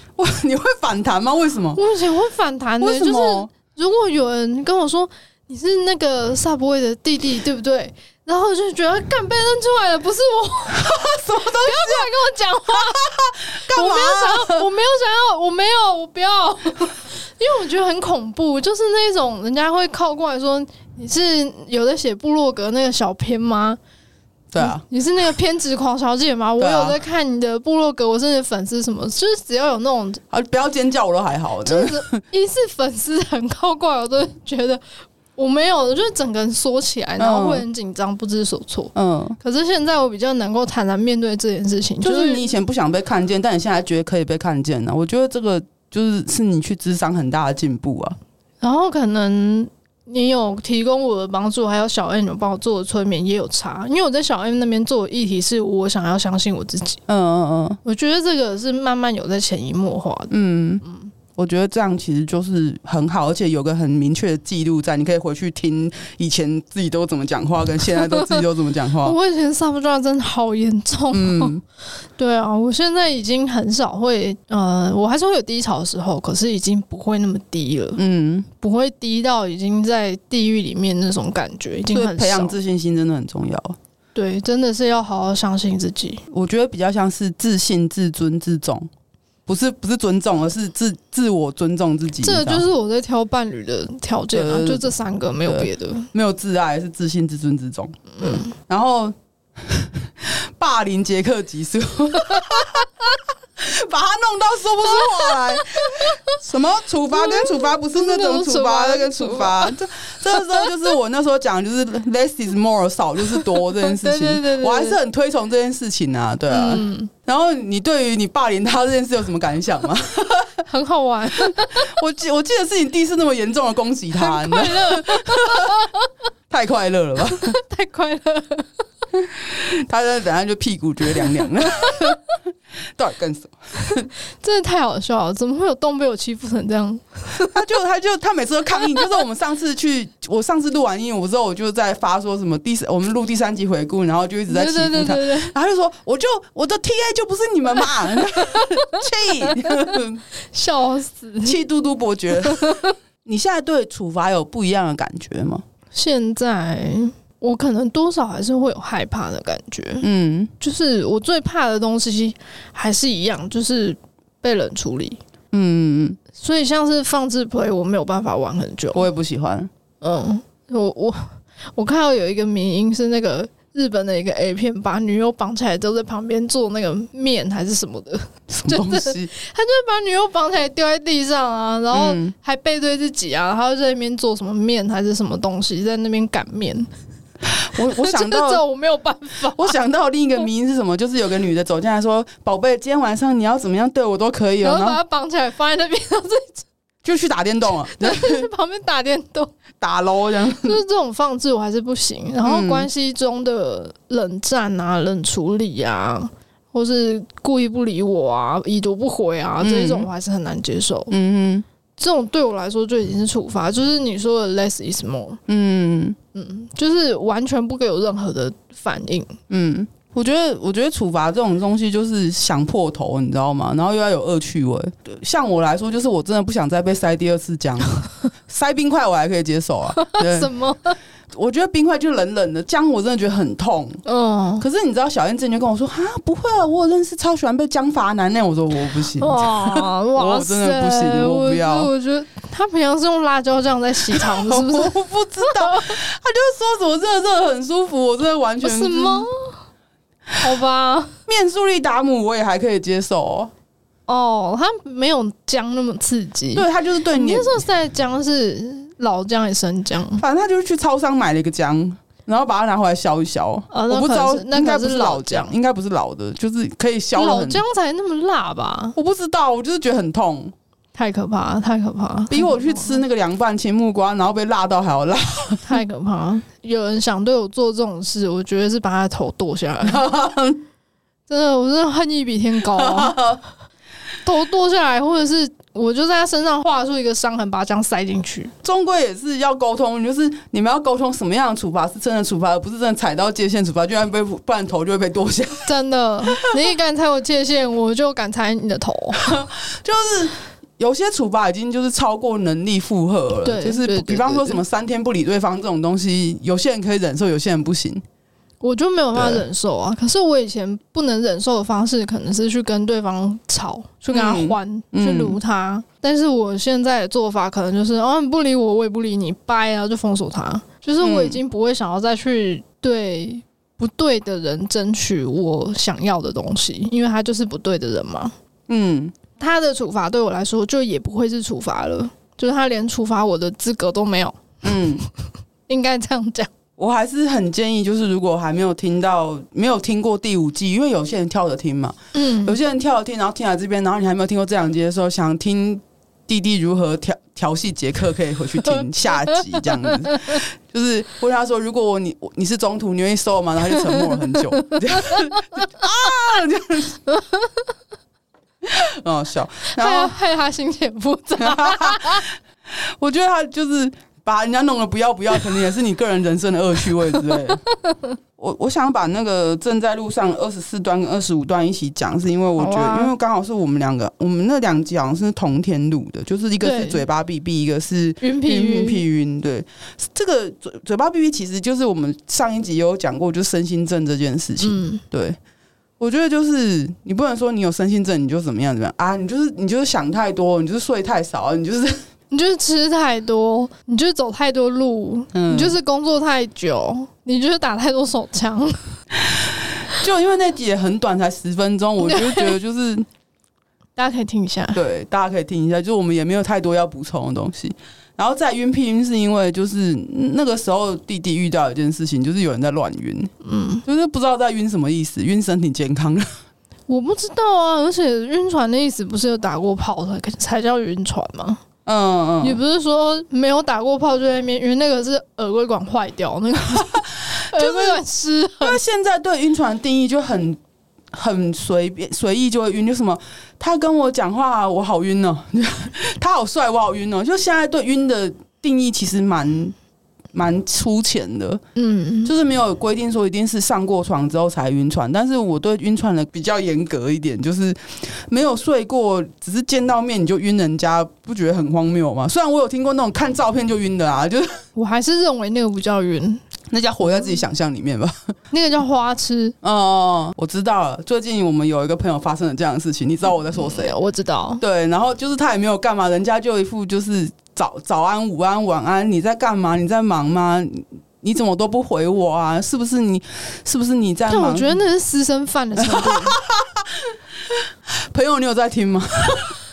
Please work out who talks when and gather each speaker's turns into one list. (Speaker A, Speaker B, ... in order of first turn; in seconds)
Speaker A: 0.2-1.8, 2.8-3.5, 10.7-12.2, 12.7-14.7, 24.5-24.8, 26.6-27.0, 30.3-32.2, 37.2-37.6, 38.9-39.4, 42.0-48.2, 57.1-57.8, 60.3-60.8, 61.4-69.2, 71.1-71.6, 78.0-78.5, 81.9-83.8, 86.3-88.9, 89.5-92.6, 94.3-94.9, 95.4-102.9, 103.6-120.6, 121.4-125.9, 126.5-127.6, 129.1-132.2, 133.0-134.1, 137.4-150.2, 151.4-155.6, 160.0-160.5, 165.5-166.2, 168.9-169.7, 178.5-179.3, 181.9-182.3, 187.5-188.6, 189.4-195.0, 197.0-198.5, 199.8-200.8, 202.4-202.9, 209.6-210.1, 211.1-211.6, 215.5-216.2, 219.5-230.5, 231.3-234.0, 234.6-241.9, 244.1-249.3, 251.3-253.5, 256.5-257.6, 260.2-267.6, 268.9-270.5, 272.3-275.8, 279.8-280.6, 282.6-283.4, 288.6-295.7, 299.1-308.0, 309.1-309.4, 314.1-315.4, 321.0-321.4, 328.7-329.1, 334.6-335.0, 336.8-357.0, 358.6-360.1, 361.4-367.6, 368.4-385.4, 386.0-392.0, 395.3-395.8, 399.2-403.1, 404.7-413.3, 413.8-416.3, 421.9-422.6, 426.7-428.0, 428.6-430.6, 431.1-439.7, 440.3-441.6, 442.2-454.6, 456.7-458.3, 459.6-463.9, 464.6-474.8, 475.8-479.6
Speaker B: 1.8-23.8, 24.6-30.2, 31.6-34.8, 35.3-42.4, 48.6-57.0, 57.8-60.3, 60.8-61.1, 68.0-68.4, 69.0-71.5, 72.2-78.0, 78.6-82.5, 84.1-86.2, 92.2-96.1, 98.2-98.5, 107.1-109.7, 110.3-110.7, 113.3-115.0, 116.5-117.1, 120.7-121.9, 124.2-126.1, 127.3-128.7, 134.3-137.5, 144.5-145.5, 150.5-151.6, 152.4-152.9, 155.9-160.1, 160.6-165.2, 166.3-169.0, 170.0-186.9, 187.9-189.7, 194.6-196.7, 197.8-199.5, 200.6-211.1, 212.0-215.4, 216.3-219.3, 230.0-231.0, 234.0-234.6, 239.2-245.9, 248.6-249.6, 250.4-251.2, 254.1-260.2, 263.7-265.5, 267.1-268.9, 270.9-273.0, 275.6-280.0, 281.3-283.2, 284.2-288.5, 295.6-299.3, 303.4-304.6, 308.6-328.3, 329.4-334.8, 335.7-336.5, 342.1-342.6, 348.7-350.4, 354.8-355.2, 357.1-357.7, 359.8-362.2, 367.3-368.1, 372.6-373.1, 376.6-377.0, 378.2-379.0, 384.6-385.0, 392.3-398.9, 402.0-402.6, 403.9-404.8, 413.4-413.8, 416.9-421.6, 422.4-428.8, 441.8-442.3, 454.8-456.4, 458.5-459.6, 463.6-464.6, 474.3-476.4